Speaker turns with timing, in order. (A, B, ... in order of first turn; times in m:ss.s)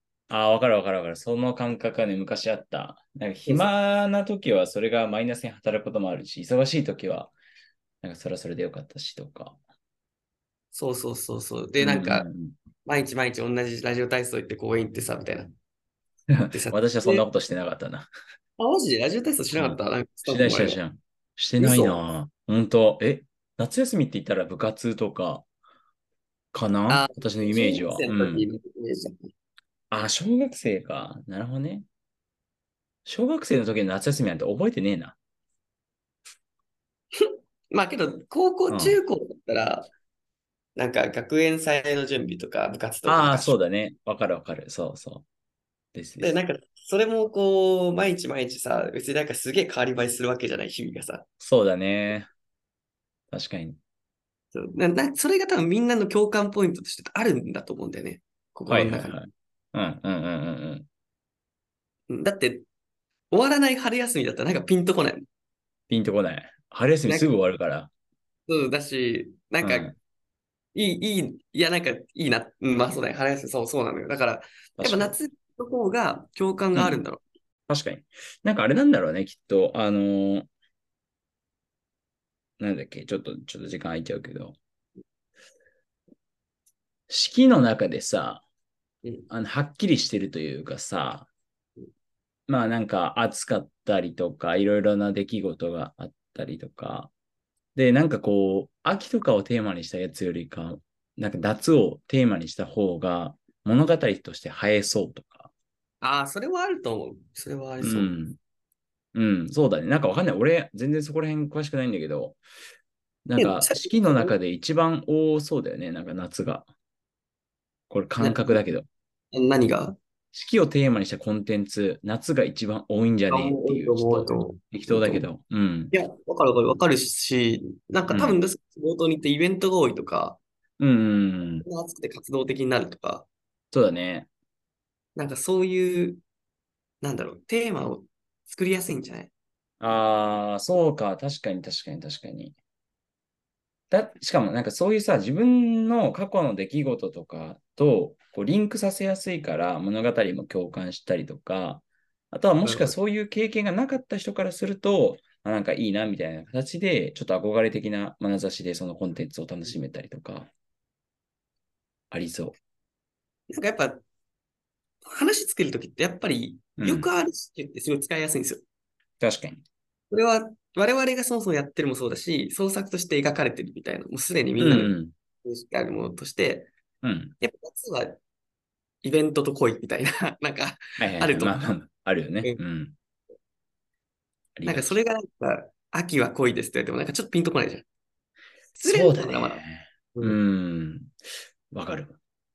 0:00.3-0:07.3 A
0:08.0-0:09.6 A
0:10.7-0:12.3 B
0:11.8-0:12.6 A
0:12.8-0:15.5 B
0:16.3-0:18.1 A
0:16.5-0:17.3 B
0:18.6-0:20.8 B
0:19.5-0:25.5 A
0:21.6-0:22.0 B
0:26.5-0:28.5 A
0:26.9-0:29.3 B
0:29.9-0:31.9 A
0:33.0-0:35.2 A
0:37.2-0:39.9 B
0:38.7-0:39.0 A
0:40.8-0:43.6 B
0:43.1-0:45.3 A
0:45.9-0:46.4 A
0:46.2-0:51.3 B
0:51.4-0:52.3 A
0:53.3-0:53.8 A
0:54.5-0:59.2 B
0:58.7-1:00.9 A
1:02.1-1:02.6 B
1:03.3-1:05.3 B
1:05.9-1:07.9 A
1:07.1-1:07.3 B
1:08.5-1:10.0 B
1:09.6-1:10.0 A
1:10.8-1:17.2 B
1:14.8-1:15.2 A
1:16.8-1:17.0 A
1:17.7-1:20.5 A
1:22.6-1:24.6 A
1:27.1-1:28.4 A
1:29.3-1:31.3 A
1:32.5-1:37.1 A
1:37.8-1:45.5 A
1:46.0-1:48.2 B
1:47.8-1:48.4 A
1:49.2-1:52.4 A
1:53.2-1:56.7 A
1:53.4-1:54.4 B
1:57.9-1:58.9 A
1:58.2-1:58.6 B
1:59.3-2:00.0 B
2:00.3-2:05.9 A
2:03.3-2:05.3 B
2:05.9-2:10.4 B
2:08.1-2:08.4 A
2:10.8-2:11.6 A
2:11.6-2:13.3 B
2:13.7-2:14.3 A
2:15.2-2:16.2 B
2:17.0-2:19.3 B
2:19.8-2:22.6 A
2:23.9-2:40.5 A
2:32.6-2:33.0 B
2:42.1-2:42.6 A
2:43.5-2:44.0 B
2:45.0-2:48.6 B
2:46.8-2:47.1 A
2:49.2-2:49.6 A
2:50.1-2:56.7 B
2:54.6-2:55.1 A
2:57.0-2:57.4 A
2:57.4-2:58.2 B
2:59.0-3:01.6 B
3:01.0-3:03.0 A
3:04.6-3:05.0 A
3:04.6-3:07.8 B
3:08.8-3:09.6 B
3:08.9-3:11.1 A
3:10.1-3:10.4 B
3:11.7-3:12.2 A